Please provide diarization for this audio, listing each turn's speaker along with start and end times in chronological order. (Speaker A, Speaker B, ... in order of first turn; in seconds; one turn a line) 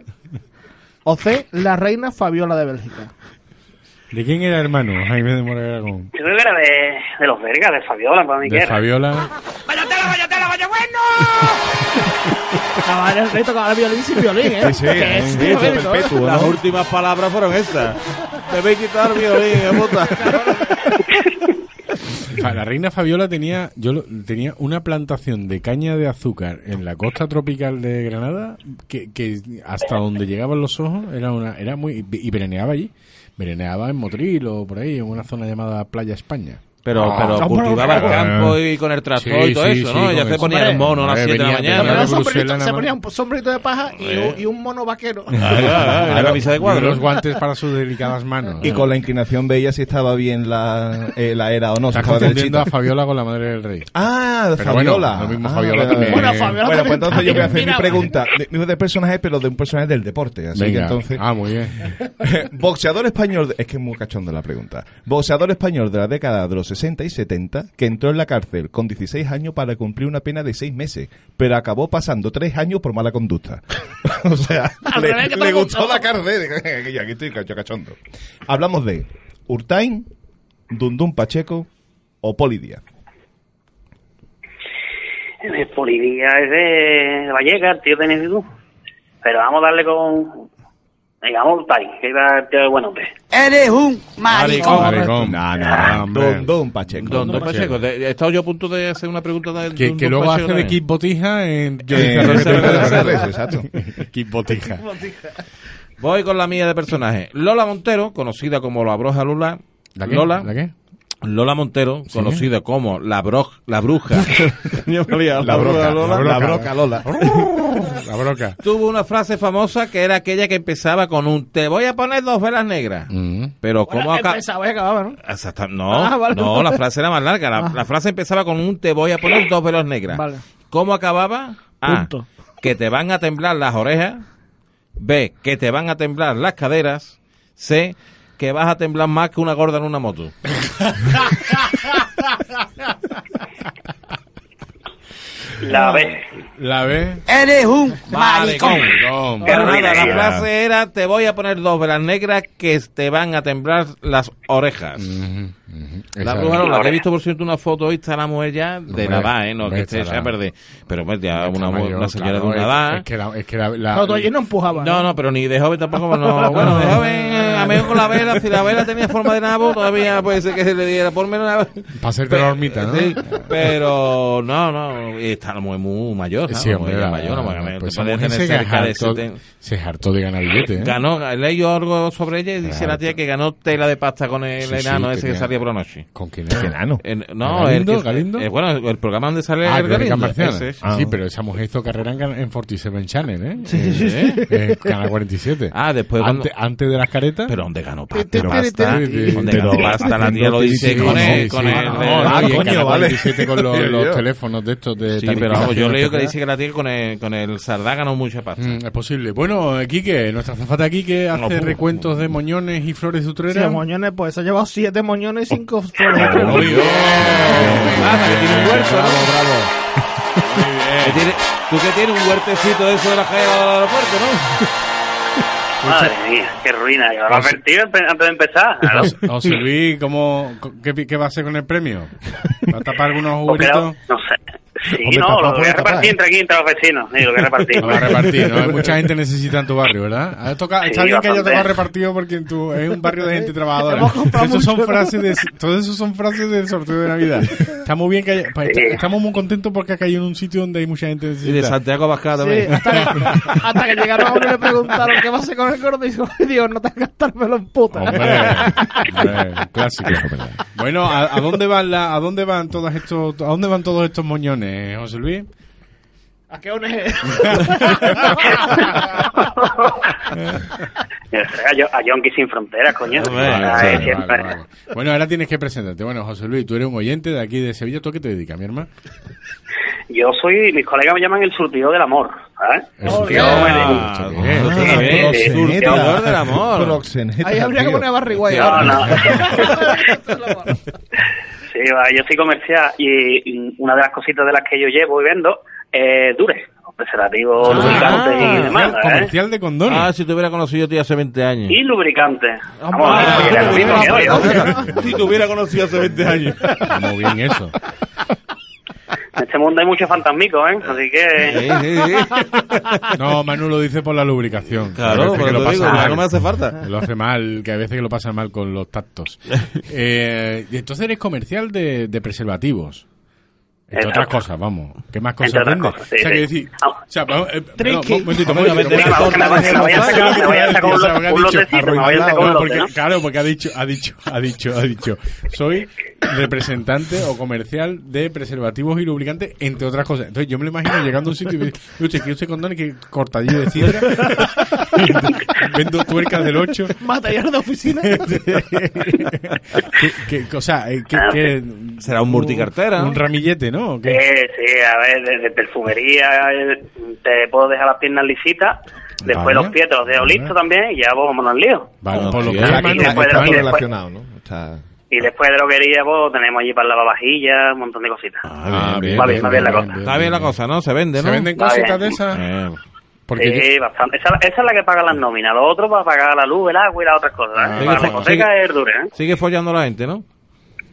Speaker A: 1.0-3.1
Speaker B: 4.1-6.1
Speaker C: 6.1-8.8
Speaker B: 8.4-9.3
Speaker A: 12.8-16.1
Speaker D: 14.6-16.6
Speaker E: 15.3-20.5
Speaker A: 20.1-21.0
Speaker B: 22.3-38.5
Speaker E: 36.8-42.2
Speaker A: 37.3-38.2
Speaker D: 38.1-38.5
Speaker B: 39.1-42.9
Speaker A: 40.4-40.9
Speaker A: 41.7-45.7
Speaker E: 44.0-44.4
Speaker B: 45.3-48.7
Speaker E: 45.4-47.0
Speaker D: 46.1-46.4
Speaker D: 48.6-52.7
Speaker B: 51.9-53.9
Speaker D: 53.9-61.2
Speaker B: 54.5-56.6
Speaker A: 55.9-58.2
Speaker B: 57.1-57.5
Speaker B: 60.5-61.9
Speaker D: 61.8-80.1
Speaker A: 74.9-76.1
Speaker D: 80.7-81.7
Speaker D: 82.2-82.8
Speaker C: 85.4-88.4
Speaker C: 89.2-90.5
Speaker C: 91.2-93.1
Speaker F: 93.3-95.0
Speaker E: 94.3-95.2
Speaker A: 94.6-95.0
Speaker B: 94.6-97.8
Speaker D: 95.2-97.5
Speaker E: 97.0-100.8
Speaker B: 99.8-104.8
Speaker D: 101.9-103.7
Speaker E: 102.0-103.2
Speaker A: 104.5-105.4
Speaker E: 106.0-110.5
Speaker B: 110.0-110.7
Speaker E: 111.2-116.4
Speaker B: 112.1-112.4
Speaker D: 115.4-117.3
Speaker B: 115.4-118.6
Speaker E: 118.6-123.1
Speaker B: 123.1-123.5
Speaker E: 123.6-124.4
Speaker A: 123.9-125.2
Speaker E: 125.2-134.2
Speaker A: 125.9-126.8
Speaker A: 130.1-130.4
Speaker A: 131.8-132.2
Speaker E: 135.0-140.3
Speaker B: 140.8-142.0
Speaker C: 145.6-146.2
Speaker B: 145.7-146.0
Speaker B: 146.6-147.2
Speaker F: 147.3-149.0
Speaker E: 148.1-155.1
Speaker B: 148.8-149.6
Speaker C: 149.4-150.2
Speaker A: 149.4-149.7
Speaker D: 150.0-150.4
Speaker B: 155.0-156.6
Speaker E: 156.2-163.0
Speaker C: 156.6-157.0
Speaker B: 158.9-160.3
Speaker B: 161.3-164.3
Speaker A: 163.9-165.1
Speaker E: 164.7-179.4
Speaker A: 166.1-168.7
Speaker B: 166.5-167.0
Speaker B: 171.9-173.2
Speaker B: 176.5-180.9
Speaker E: 180.7-186.1
Speaker B: 182.6-183.2
Speaker B: 184.6-185.5
Speaker B: 186.1-186.7
Speaker D: 186.5-187.0
Speaker E: 187.0-190.8
Speaker B: 187.4-188.5
Speaker B: 189.6-197.5
Speaker D: 190.8-191.2
Speaker A: 193.7-194.8
Speaker E: 193.8-194.4
Speaker E: 195.7-196.5
Speaker E: 197.5-202.7
Speaker A: 198.1-200.0
Speaker B: 198.8-199.9
Speaker D: 199.4-204.2
Speaker B: 200.8-206.3
Speaker E: 205.2-208.8
Speaker B: 208.6-213.8
Speaker E: 211.3-212.0
Speaker A: 213.5-217.9
Speaker E: 216.1-219.7
Speaker B: 216.2-219.3
Speaker B: 220.4-221.3
Speaker E: 221.0-224.6
Speaker C: 225.8-229.1
Speaker B: 225.8-226.1
Speaker B: 227.3-227.6
Speaker B: 228.8-234.0
Speaker C: 233.4-238.2
Speaker D: 234.9-236.2
Speaker B: 237.8-251.8
Speaker C: 240.8-241.7
Speaker A: 243.7-245.3
Speaker C: 248.6-249.0
Speaker E: 251.4-253.3
Speaker A: 252.4-259.4
Speaker B: 252.9-253.6
Speaker B: 257.9-265.5
Speaker D: 260.1-260.6
Speaker A: 266.5-269.7
Speaker B: 267.4-268.0
Speaker C: 269.6-270.1
Speaker C: 271.3-274.5
Speaker E: 273.1-274.0
Speaker B: 273.2-278.9
Speaker C: 280.1-284.1
Speaker B: 283.0-285.1
Speaker A: 283.0-284.0
Speaker E: 283.2-287.0
Speaker D: 284.4-288.4
Speaker C: 284.8-286.1
Speaker A: 287.4-290.8
Speaker E: 288.5-288.9
Speaker C: 288.5-289.9
Speaker B: 289.1-289.3
Speaker C: 291.7-299.3
Speaker E: 297.6-298.7
Speaker B: 297.6-300.1
Speaker A: 297.8-298.1
Speaker E: 299.8-301.8
Speaker C: 301.7-304.6
Speaker A: 302.8-305.0
Speaker E: 303.0-306.9
Speaker B: 303.2-305.2
Speaker B: 306.8-307.7
Speaker C: 309.4-311.6
Speaker E: 311.4-313.1
Speaker B: 313.1-323.0
Speaker E: 314.9-316.8
Speaker B: 323.9-347.0
Speaker C: 323.9-324.3
Speaker C: 325.4-326.9
Speaker A: 327.8-328.8
Speaker E: 328.4-330.3
Speaker C: 328.7-332.9
Speaker D: 331.7-332.6
Speaker A: 344.0-345.2
Speaker A: 347.0-348.6
Speaker B: 348.0-354.2
Speaker C: 351.1-351.5
Speaker E: 352.0-353.2
Speaker C: 354.0-361.9
Speaker B: 359.2-360.5
Speaker B: 362.0-363.7
Speaker E: 362.1-362.9
Speaker D: 362.4-364.8
Speaker C: 362.6-363.8
Speaker C: 365.1-368.5
Speaker E: 368.4-371.5
Speaker B: 368.7-370.5
Speaker C: 369.1-369.9
Speaker B: 371.1-372.4
Speaker C: 371.5-372.1
Speaker E: 372.3-372.8
Speaker B: 373.3-373.7
Speaker C: 373.4-379.1
Speaker B: 377.6-378.3
Speaker E: 377.8-378.5
Speaker E: 379.1-380.2